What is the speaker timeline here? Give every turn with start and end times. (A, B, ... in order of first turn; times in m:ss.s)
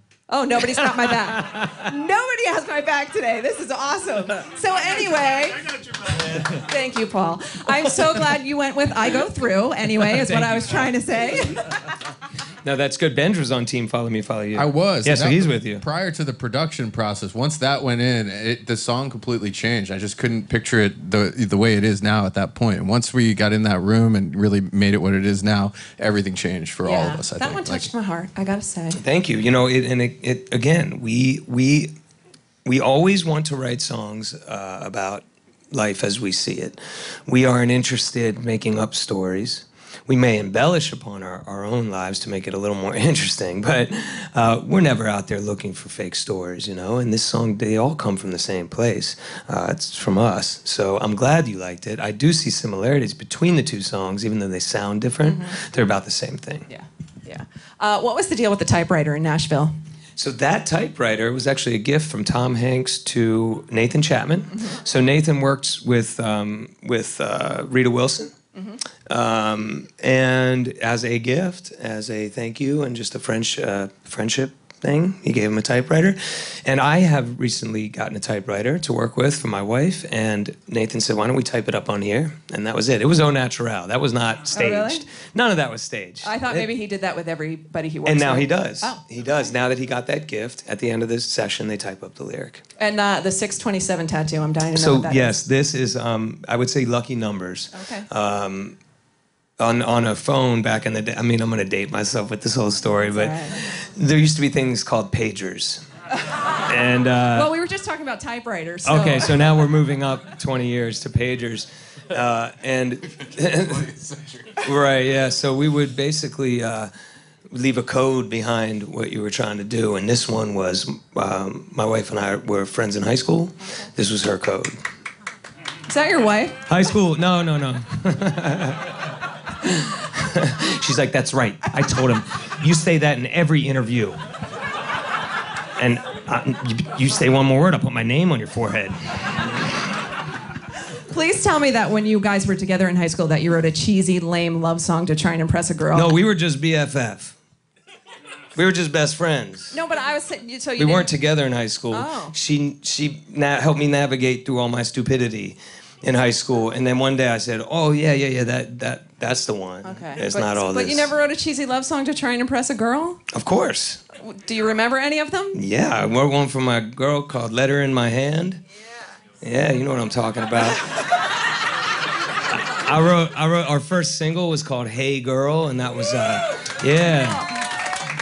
0:00.3-0:11.8 A
0:12.6-0:15.8 B
0:14.5-0:27.9 C
0:26.8-0:29.0 A
0:29.0-0:31.9 B
0:32.6-0:56.7 B
0:55.2-0:55.5 A
0:56.7-0:59.7 A
1:00.2-1:08.3 B
1:09.1-1:26.7 B
1:24.5-1:25.0 A
1:26.2-1:29.0 A
1:28.0-1:32.6 B
1:32.8-1:35.4 A
1:34.8-1:38.8 B
1:37.7-1:38.1 A
1:39.6-1:45.8 B
1:43.1-1:43.6 A
1:46.7-1:47.5 B
1:47.3-1:49.4 A
1:48.9-1:54.0 B
1:54.5-1:56.9 B
1:57.5-2:04.8 B
2:05.9-2:06.6 A
2:06.7-2:09.0 B
2:09.6-2:14.2 B
2:15.8-2:19.6 B
2:21.1-2:26.1 A
2:25.9-2:27.4 B
2:28.6-2:29.8 B
2:29.7-2:31.1 A
2:30.8-2:41.1 B
2:31.9-2:32.4 A
2:39.8-2:43.2 A
2:43.3-2:44.0 B
2:44.2-2:45.6 A
2:45.6-2:48.6 B
2:49.4-2:51.0 B
2:52.5-2:57.5 B